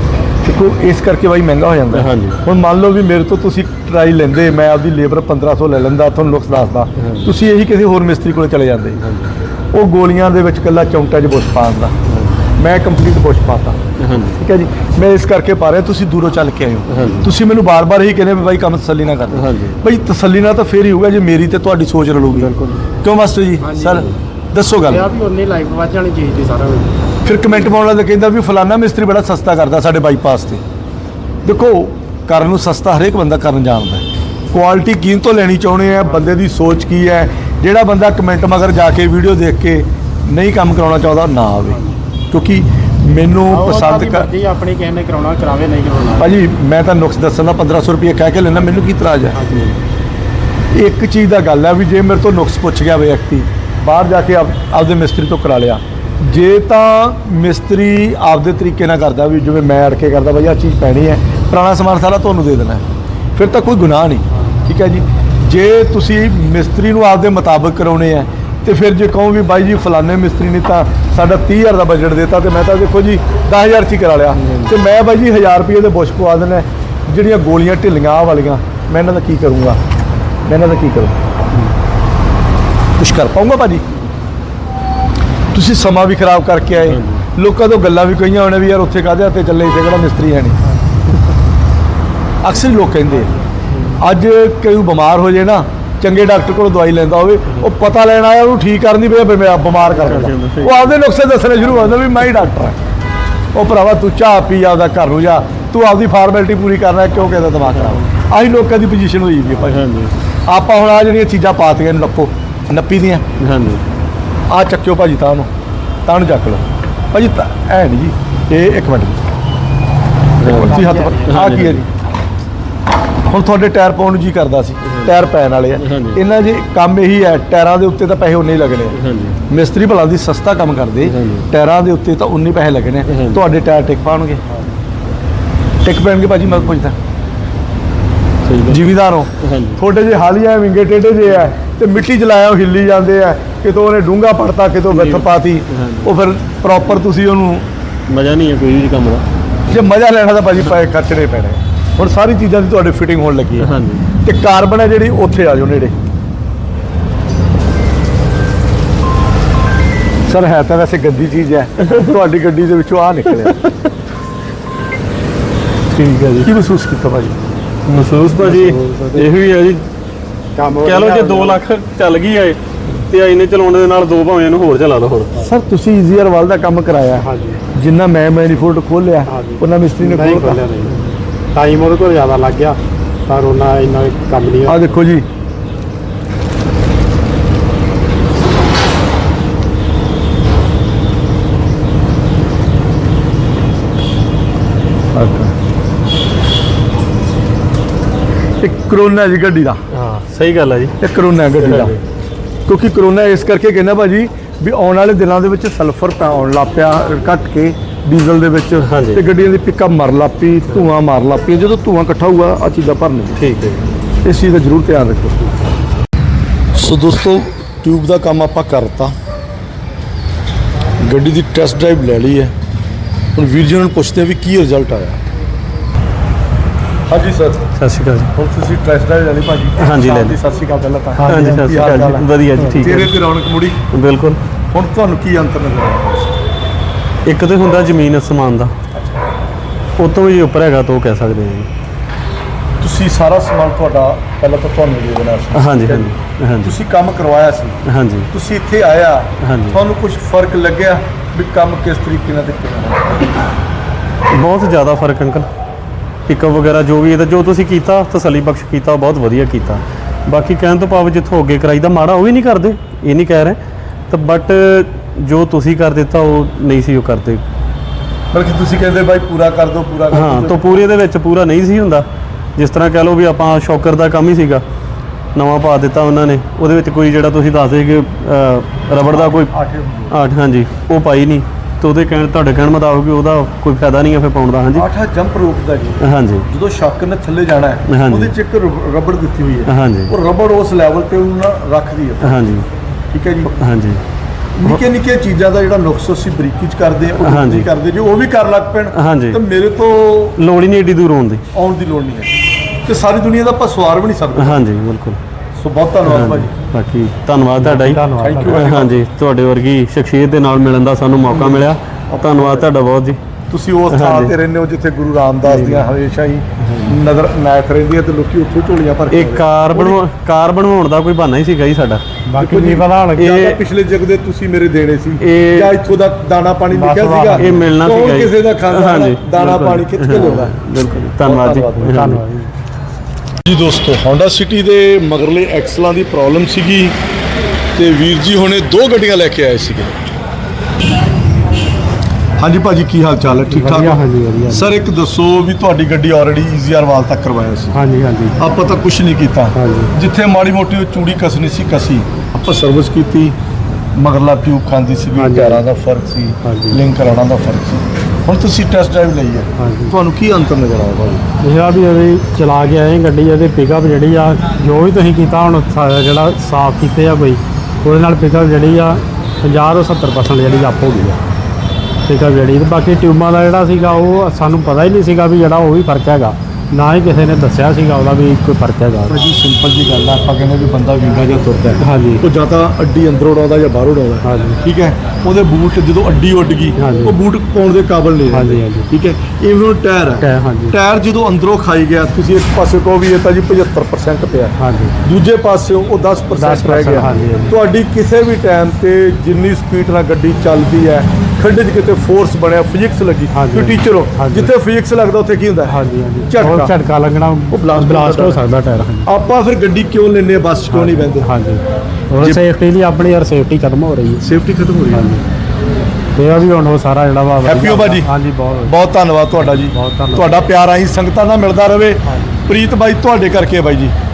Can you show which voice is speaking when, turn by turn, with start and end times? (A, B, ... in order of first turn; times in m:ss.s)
0:00.4-0:09.0 A
0:01.9-0:02.4 B
0:07.0-0:07.3 B
0:09.0-0:09.3 B
0:09.7-0:12.0 A
0:12.0-0:12.4 B
0:12.6-0:13.8 A
0:14.0-0:14.4 B
0:14.4-0:25.1 A
0:16.9-0:17.3 B
0:19.3-0:19.8 B
0:22.3-0:22.8 B
0:23.6-0:24.1 C
0:24.8-0:27.0 C
0:27.2-0:30.6 A
0:31.4-0:44.3 A
0:43.5-0:46.4 C
0:46.2-0:49.4 A
0:49.4-0:49.7 C
0:50.7-1:19.8 A
1:20.4-1:21.2 A
1:23.0-1:23.8 A
1:25.5-1:30.6 A
1:26.8-1:27.2 B
1:32.4-1:33.3 A
1:33.7-1:34.0 B
1:34.0-1:42.8 A
1:39.8-1:40.9 B
1:43.5-1:49.8 A
1:47.8-1:48.0 B
1:49.6-1:50.1 B
1:50.5-1:53.2 A
1:53.4-1:53.8 B
1:54.5-1:55.5 A
1:56.0-1:59.2 A
2:00.4-2:01.8 B
2:00.4-2:01.8 A
2:00.4-2:01.8 C
2:03.3-2:14.4 A
2:04.8-2:05.1 B
2:05.8-2:06.2 B
2:08.9-2:09.4 B
2:11.0-2:11.5 B
2:13.0-2:13.4 B
2:15.8-2:17.0 A
2:16.5-2:16.7 B
2:18.4-2:19.8 B
2:18.7-2:27.7 A
2:24.9-2:26.1 B
2:28.1-2:29.2 B
2:29.7-2:33.7 A
2:33.6-2:34.1 B
2:34.2-2:35.9 A
2:40.3-2:43.7 A
2:45.9-2:46.5 B
2:46.4-2:47.4 A
2:47.8-2:49.9 B
2:48.4-2:49.3 C
2:50.6-2:51.6 C
2:50.7-2:55.3 B
2:55.4-3:00.6 A
2:57.2-2:57.6 C
2:59.3-3:01.0 C
3:00.9-3:01.2 B
3:01.5-3:05.0 C
3:04.7-3:05.2 A
3:15.1-3:15.5 A
3:18.6-3:19.8 A
3:19.9-3:20.9 B
3:21.0-3:22.0 A
3:21.6-3:22.0 B
3:22.7-3:33.4 A
3:28.8-3:29.2 B
3:33.4-3:33.9 B
3:34.2-3:35.5 A
3:36.7-3:39.1 A
3:41.0-3:42.5 A
3:43.4-3:45.2 A
3:47.1-3:47.6 A
3:47.7-3:48.3 B
3:48.3-3:52.3 A
3:49.8-3:50.4 B
3:51.2-3:52.0 C
3:51.2-3:53.1 B
3:52.6-3:53.0 C
3:52.8-3:53.8 A
3:53.9-3:54.4 B
3:54.7-3:56.3 A
3:57.2-3:58.7 B
4:00.0-4:01.7 B
4:02.8-4:07.8 A
4:05.5-4:06.7 B
4:07.8-4:08.3 B
4:08.3-4:13.2 A
4:09.4-4:09.8 B
4:14.3-4:15.5 B
4:16.3-4:27.4 B
4:28.3-4:30.8 A
4:30.1-4:34.6 B
4:35.3-4:39.5 B
4:39.0-4:40.2 A
4:40.1-4:44.9 B
4:44.7-4:52.4 A
4:46.0-4:46.5 B
4:47.9-4:48.3 B
4:49.6-4:50.1 B
4:52.2-4:52.7 B
4:53.1-4:53.5 A
4:53.5-4:54.0 B
4:54.6-5:00.4 A
4:57.2-4:57.7 B
4:58.9-4:59.4 B
5:00.4-5:01.4 B
5:01.5-5:02.3 A
5:02.8-5:04.6 A
5:04.4-5:05.2 B
5:05.6-5:06.5 A
5:06.0-5:13.2 B
5:07.6-5:08.6 C
5:08.2-5:09.0 A
5:11.3-5:12.7 A
5:13.5-5:20.0 A
5:13.9-5:14.3 B
5:15.4-5:15.9 B
5:16.6-5:17.0 B
5:19.1-5:22.0 B
5:22.3-5:23.3 C
5:22.4-5:30.6 A
5:23.2-5:23.6 B
5:25.2-5:25.8 B
5:26.7-5:27.7 C
5:27.4-5:32.2 B
5:31.2-5:32.2 A
5:31.8-5:32.5 C
5:33.4-5:37.0 A
5:37.8-5:39.9 A
5:42.4-5:47.8 A
5:43.5-5:44.7 C
5:47.7-5:48.4 C
5:48.4-5:53.3 A
5:49.5-5:49.9 C
5:53.9-6:01.2 A
5:55.2-5:55.6 C
5:56.4-5:56.8 C
5:59.6-5:59.9 C
6:01.4-6:11.2 C
6:12.1-6:19.2 C
6:19.1-6:45.8 A
6:21.8-6:22.2 C
6:24.2-6:24.6 C
6:26.8-6:27.2 C
6:28.3-6:28.9 C
6:30.2-6:30.8 C
6:34.6-6:35.0 C
6:36.4-6:37.6 C
6:43.3-6:44.5 C
6:45.7-6:49.1 C
6:46.3-6:46.7 A
6:47.5-6:48.4 A
6:49.0-6:51.3 A
6:50.7-6:54.4 C
6:54.2-6:55.2 A
6:54.9-6:55.2 C
6:56.2-6:58.8 C
6:57.4-6:58.1 A
6:58.6-7:03.9 A
6:59.5-7:00.3 C